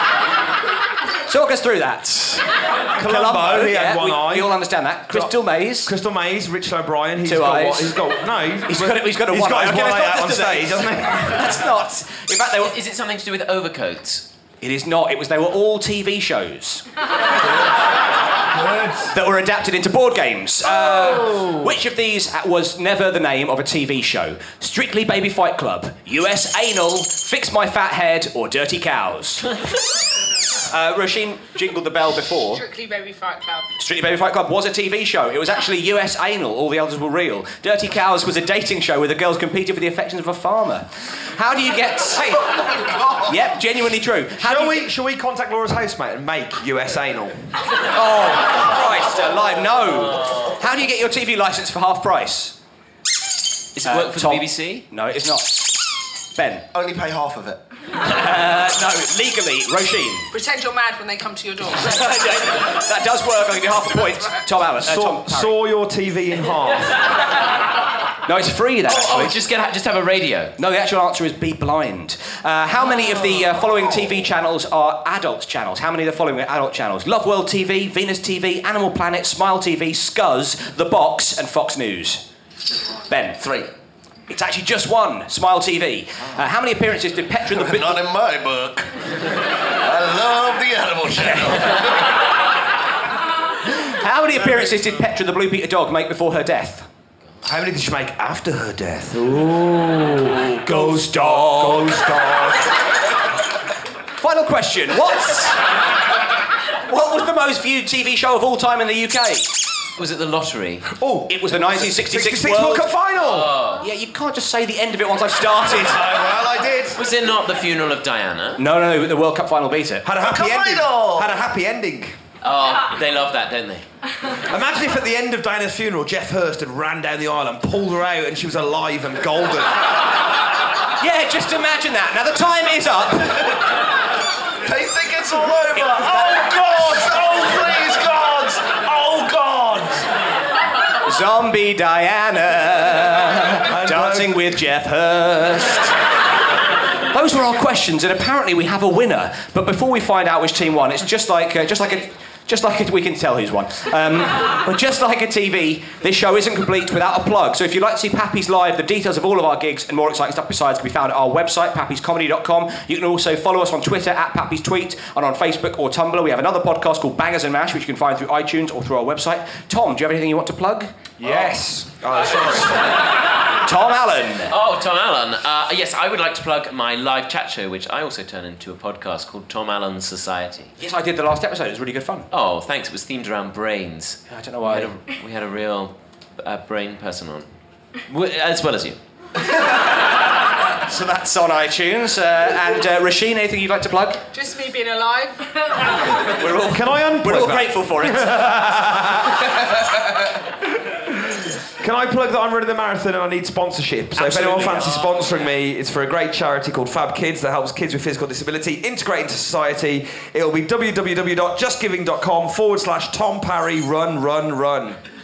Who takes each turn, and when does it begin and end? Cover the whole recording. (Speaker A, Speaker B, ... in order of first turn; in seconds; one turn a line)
Speaker A: 1.3-5.9
Speaker B: 3.0-4.6
Speaker B: 5.1-11.5
Speaker A: 7.2-7.9
Speaker A: 8.7-12.8
Speaker C: 12.6-14.3
Speaker A: 14.6-16.8
Speaker B: 18.6-19.1
Speaker A: 19.1-29.6
Speaker A: 30.7-32.6
Speaker D: 32.5-33.7
Speaker A: 33.8-42.6
Speaker A: 43.2-44.9
Speaker B: 44.4-47.4
Speaker A: 47.9-52.6
Speaker C: 53.8-54.9
Speaker A: 53.9-55.8
Speaker A: 56.4-56.7
Speaker E: 56.7-57.6
Speaker A: 58.0-60.3
Speaker D: 60.3-62.0
Speaker A: 61.8-65.5
Speaker D: 63.9-64.4
Speaker B: 64.8-67.1
Speaker A: 68.3-69.3
Speaker C: 68.9-70.5
Speaker A: 70.6-82.2
Speaker A: 83.1-83.5
Speaker E: 83.4-83.7
Speaker A: 84.3-88.0
Speaker E: 87.5-89.0
Speaker E: 89.8-92.0
Speaker A: 91.2-91.8
Speaker A: 93.7-96.9
Speaker B: 97.4-102.7
Speaker A: 100.3-102.0
Speaker A: 104.2-105.6
Speaker A: 106.9-109.5
Speaker C: 110.0-110.9
Speaker B: 110.9-113.6
Speaker A: 111.3-112.9
Speaker C: 113.2-113.8
Speaker A: 113.8-116.0
Speaker E: 116.1-116.8
Speaker B: 116.1-117.0
Speaker C: 117.0-118.6
Speaker A: 118.6-120.0
Speaker B: 120.0-122.2
Speaker E: 120.2-121.3
Speaker C: 122.4-123.9
Speaker B: 124.5-129.8
Speaker A: 131.0-133.6
Speaker E: 134.6-138.9
Speaker B: 135.9-137.7
Speaker B: 138.8-140.1
Speaker A: 141.0-145.9
Speaker B: 143.7-144.5
Speaker A: 147.1-171.3
Speaker B: 171.2-172.8
Speaker A: 173.5-174.5
Speaker C: 174.5-180.7
Speaker A: 180.8-182.3
Speaker C: 182.3-187.5
Speaker A: 184.3-184.9
Speaker C: 188.1-189.0
Speaker A: 190.8-194.3
Speaker D: 194.3-195.9
Speaker A: 196.2-199.6
Speaker B: 196.6-199.5
Speaker B: 201.1-215.0
Speaker A: 204.2-205.2